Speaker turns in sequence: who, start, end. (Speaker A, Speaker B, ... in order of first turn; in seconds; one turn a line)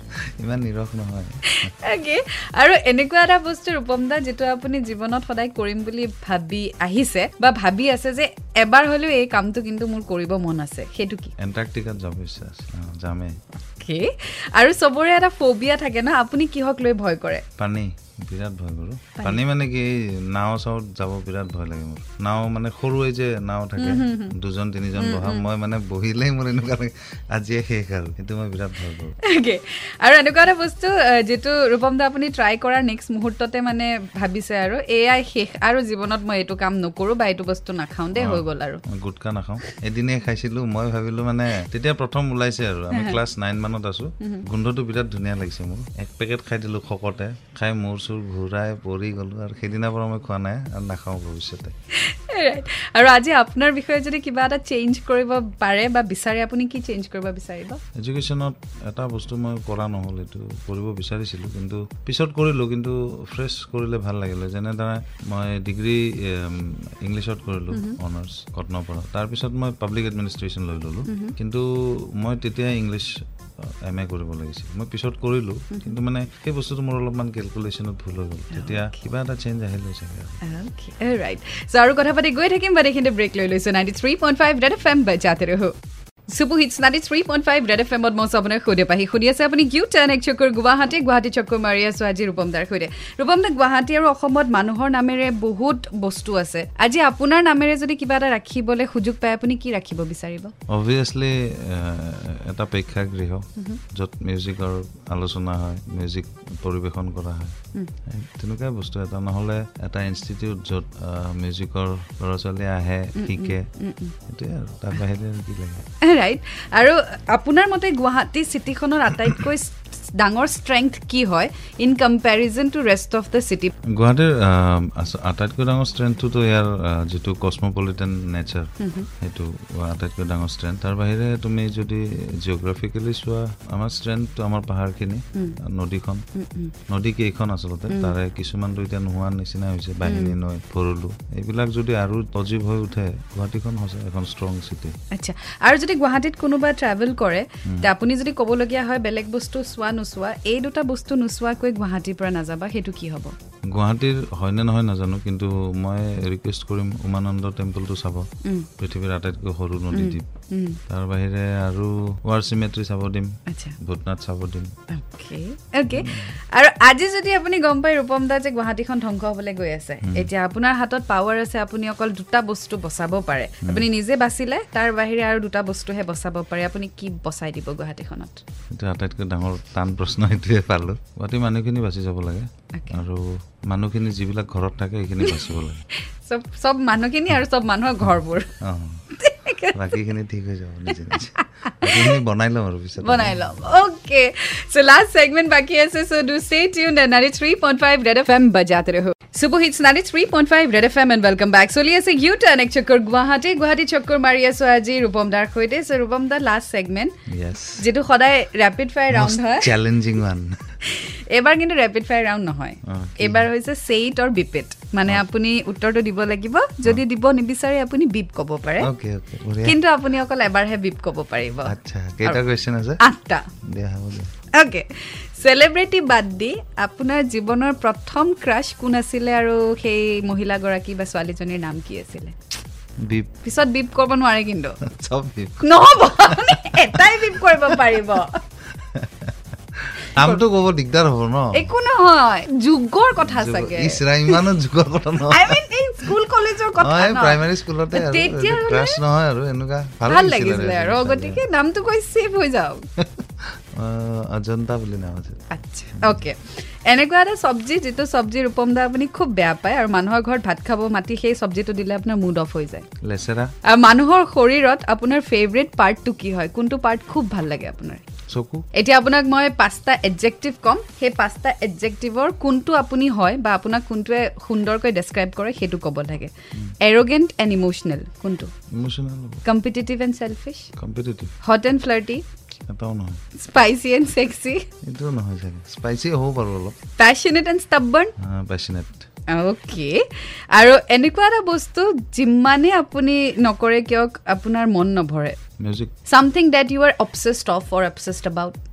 Speaker A: 0.4-1.7
Speaker B: 1.5-11.3
Speaker A: 11.4-13.3
Speaker B: 13.8-17.4
Speaker A: 17.6-29.1
Speaker B: 23.8-24.3
Speaker B: 24.9-25.4
Speaker B: 29.2-38.8
Speaker A: 38.1-51.7
Speaker B: 42.9-43.2
Speaker B: 52.0-57.8
Speaker A: 58.0-80.4
Speaker B: 67.7-68.0
Speaker B: 71.1-71.3
Speaker B: 75.7-76.0
Speaker B: 78.5-78.9
Speaker B: 80.4-85.8
Speaker B: 86.3-100.5
Speaker A: 100.7-107.5
Speaker A: 108.1-113.7
Speaker B: 113.2-114.2
Speaker A: 114.3-115.8
Speaker B: 116.0-123.7
Speaker A: 124.0-136.2
Speaker B: 128.8-129.1
Speaker B: 135.3-135.6
Speaker B: 136.3-136.8
Speaker A: 136.9-144.9
Speaker B: 137.9-138.2
Speaker B: 140.0-140.4
Speaker B: 145.1-153.3
Speaker A: 147.7-147.9
Speaker A: 153.7-160.3
Speaker B: 158.4-158.7
Speaker B: 159.9-160.8
Speaker A: 160.9-164.7
Speaker B: 163.5-163.8
Speaker B: 164.9-178.4
Speaker A: 165.9-166.4
Speaker A: 170.0-170.3
Speaker A: 178.7-185.8
Speaker B: 182.7-183.0
Speaker B: 185.2-188.5
Speaker A: 188.6-189.0
Speaker B: 189.1-189.9
Speaker A: 189.7-193.6
Speaker B: 191.1-192.2
Speaker B: 193.0-207.2
Speaker A: 207.3-207.9
Speaker B: 207.8-209.7
Speaker A: 209.1-210.6
Speaker B: 210.8-218.9
Speaker A: 212.8-213.5
Speaker A: 218.8-219.8
Speaker B: 219.6-222.4
Speaker A: 221.7-223.0
Speaker B: 223.0-223.5
Speaker A: 223.7-224.3
Speaker B: 224.5-232.4
Speaker A: 233.0-233.3
Speaker B: 233.4-234.8
Speaker A: 234.8-238.0
Speaker B: 235.6-238.4
Speaker A: 238.8-241.7
Speaker B: 240.0-240.4
Speaker B: 241.5-244.4
Speaker A: 243.2-245.6
Speaker B: 245.3-249.0
Speaker A: 246.8-251.4
Speaker B: 250.1-252.8
Speaker A: 253.0-255.4
Speaker B: 255.5-262.9
Speaker A: 263.0-263.5
Speaker B: 263.7-268.1
Speaker A: 268.3-268.7
Speaker B: 268.7-278.5
Speaker A: 278.8-279.4
Speaker B: 279.4-280.7
Speaker A: 280.8-281.4
Speaker B: 281.4-282.2
Speaker A: 282.7-283.2
Speaker B: 283.4-284.7
Speaker A: 284.8-286.8
Speaker B: 287.0-288.1
Speaker A: 288.2-289.1
Speaker B: 289.3-295.4
Speaker A: 295.6-295.9
Speaker B: 296.1-298.6